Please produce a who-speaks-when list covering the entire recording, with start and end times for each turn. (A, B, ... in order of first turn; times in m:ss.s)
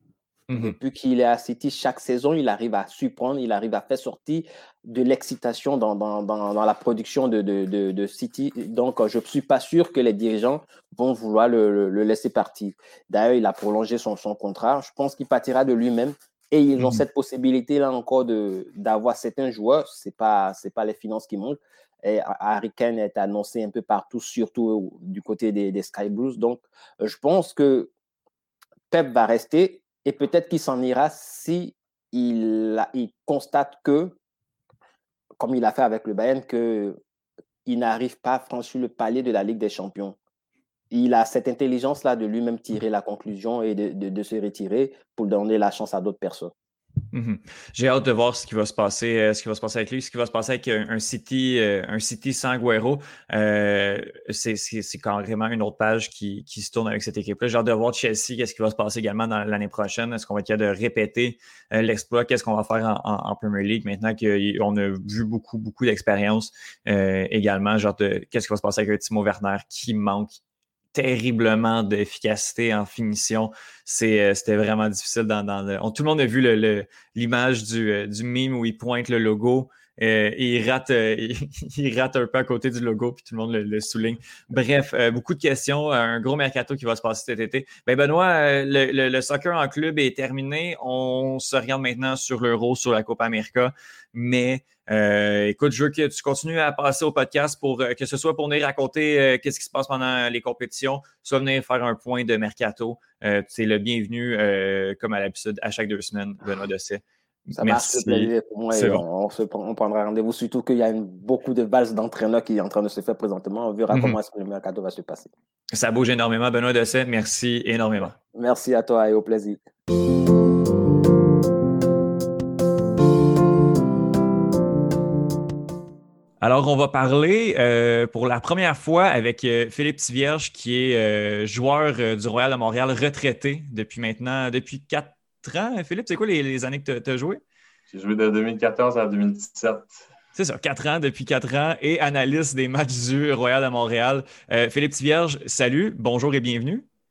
0:00.5-0:00.8 A
0:00.5-0:27.9 B
0:28.9-0:34.2 B
0:35.4-0:37.0 B
0:37.6-0:40.2 B
0:40.9-0:46.5 B
0:47.1-1:10.4 A
1:10.9-1:49.0 A
1:47.6-1:55.3 B
1:53.9-1:54.2 A
1:55.7-1:58.2 A
1:58.3-1:59.6 B
2:06.4-2:17.4 A
2:17.9-2:20.0 C
2:20.4-2:26.9 A